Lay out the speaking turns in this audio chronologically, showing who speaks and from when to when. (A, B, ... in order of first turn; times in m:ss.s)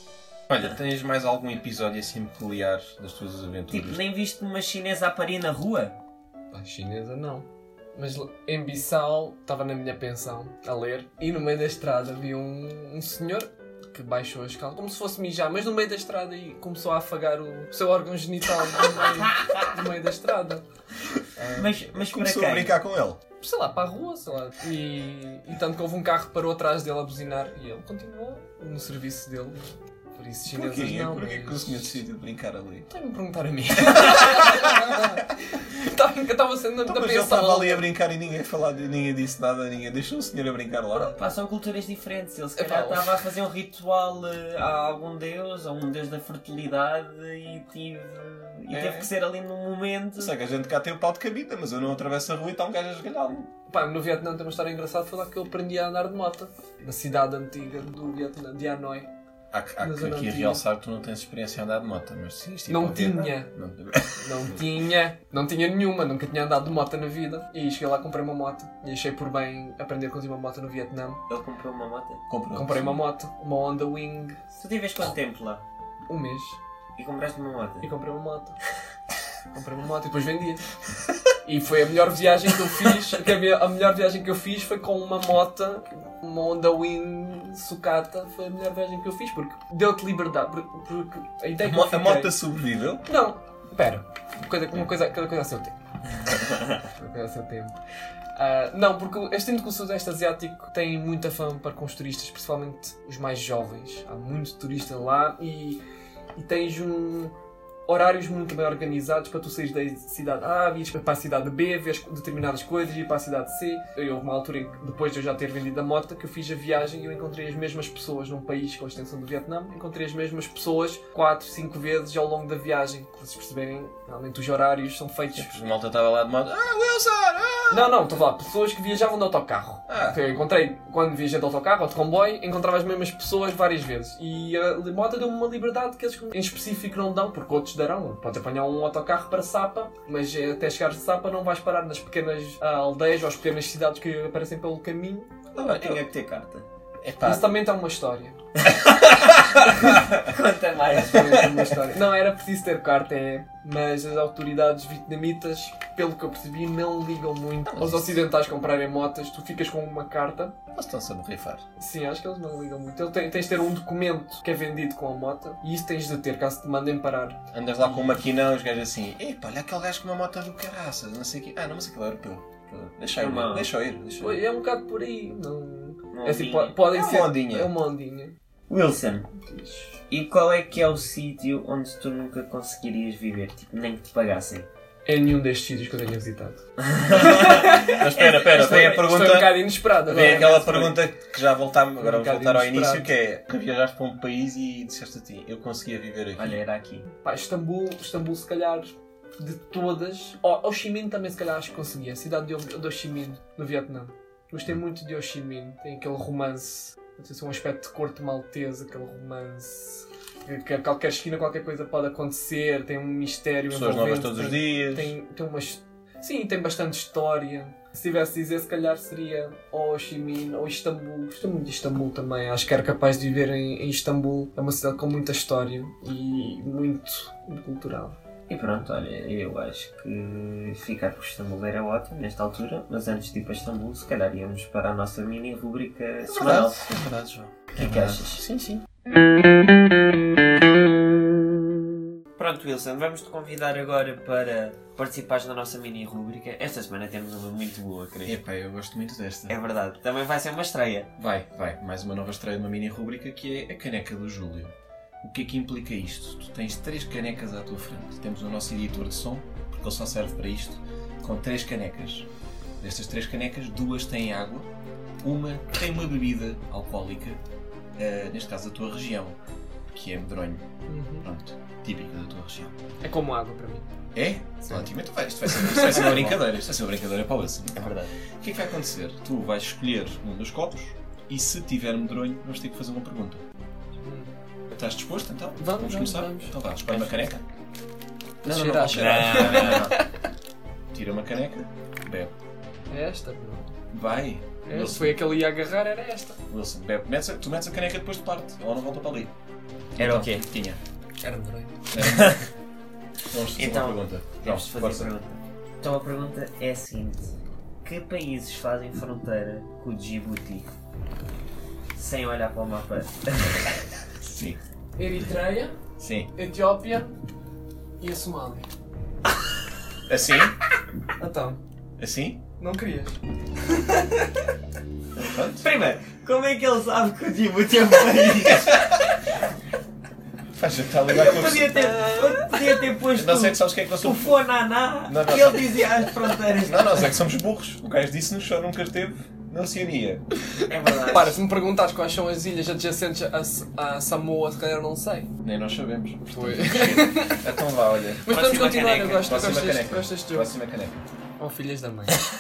0:00.5-0:04.0 A
0:03.7-0:06.0 B
0:06.5-0:20.6 C
0:21.4-0:21.7 C
0:21.5-0:22.8 B
0:22.0-0:23.2 A
0:23.4-0:32.0 C
0:30.5-0:32.9 A
0:32.9-0:37.8 C
0:33.9-0:34.8 A
0:36.8-0:41.2 A
0:41.1-0:50.4 B
0:42.6-0:43.1 C
0:48.7-0:49.1 A
0:50.2-0:53.5 A
0:53.7-0:59.1 C
0:59.5-1:04.7 A
0:59.8-1:00.6 C
1:02.7-1:03.5 C
1:04.2-1:11.2 C
1:11.3-1:12.2 B
1:12.3-1:12.9 A
1:12.5-1:14.4 C
1:14.6-1:15.6 B
1:16.1-1:16.6 C
1:17.0-1:17.9 B
1:17.8-1:18.6 C
1:19.5-1:20.6 C
1:21.3-1:32.3 C
1:31.6-1:33.0 A
1:33.0-1:35.8 C
1:37.0-1:37.8 C
1:38.4-1:45.8 C
1:46.4-1:47.3 C
1:47.9-2:05.6 C
2:05.4-2:08.0 A
2:07.7-2:25.3 C
2:09.9-2:10.2 A
2:25.6-2:26.0 A
2:25.6-2:26.7 B
2:27.0-2:27.6 A
2:27.2-2:28.4 C
2:29.9-2:31.7 B
2:30.9-2:40.6 C
2:37.7-2:38.2 A
2:40.7-2:41.6 A
2:41.8-2:48.2 C
2:47.5-2:54.4 A
2:52.7-2:53.7 B
2:54.2-2:58.4 C
2:56.1-2:56.9 B
2:56.8-2:57.7 A
2:58.7-2:59.3 B
2:59.3-3:00.0 C
3:00.1-3:04.7 B
3:05.1-3:11.0 C
3:06.9-3:07.4 B
3:07.1-3:16.6 A
3:12.0-3:13.1 C
3:16.4-3:17.1 B
3:17.2-3:48.2 C
3:33.7-3:35.1 A
3:48.5-3:56.8 B
3:56.2-3:58.8 A
3:57.8-3:58.4 B
4:02.4-4:08.4 B
4:08.2-4:09.5 A
4:09.5-4:11.1 B
4:11.2-4:22.3 A
4:22.8-4:24.7 A
4:25.2-4:27.4 A
4:28.0-4:29.4 A
4:29.9-4:30.6 A
4:30.9-4:31.3 C
4:31.2-4:32.8 A
4:33.0-4:33.9 C
4:34.1-4:43.4 A
4:35.4-4:36.1 C
4:35.8-4:36.4 B
4:37.8-4:38.1 B
4:44.0-4:44.3 C
4:44.7-4:47.4 A
4:45.6-4:46.6 C
4:46.9-4:47.2 B
4:48.4-4:50.2 C
4:48.4-4:50.0 A
4:48.9-4:49.9 B
4:50.9-4:52.3 A
4:52.9-4:53.8 C
4:53.9-4:55.2 A
4:54.6-4:56.4 C
4:56.5-4:59.3 A
5:00.0-5:00.8 A
5:00.0-5:00.5 B
5:01.2-5:01.8 C
5:01.9-5:02.4 A
5:02.0-5:02.5 B
5:03.3-5:05.1 A
5:03.6-5:07.3 B
5:07.8-5:10.7 B
5:12.0-5:13.7 B
5:14.2-5:14.6 A
5:15.0-5:15.8 C
5:16.0-5:16.3 A
5:16.3-5:17.2 C
5:18.0-5:18.7 C
5:20.1-5:20.6 A
5:21.2-5:21.6 C
5:22.0-5:22.4 A
5:22.6-5:23.2 C
5:23.8-5:24.2 C
5:25.2-5:29.0 B
5:25.2-5:25.6 A
5:28.5-5:29.0 A
5:30.5-5:32.0 A
5:31.1-5:37.1 B
5:32.1-5:32.4 C
5:33.1-5:34.4 A
5:35.1-5:40.2 A
5:40.5-5:45.3 C
5:40.7-5:41.4 B
5:45.4-5:48.2 A
5:46.2-5:47.6 C
5:48.2-5:50.5 C
5:48.3-5:49.4 B
5:49.2-5:51.0 A
5:51.4-5:52.2 C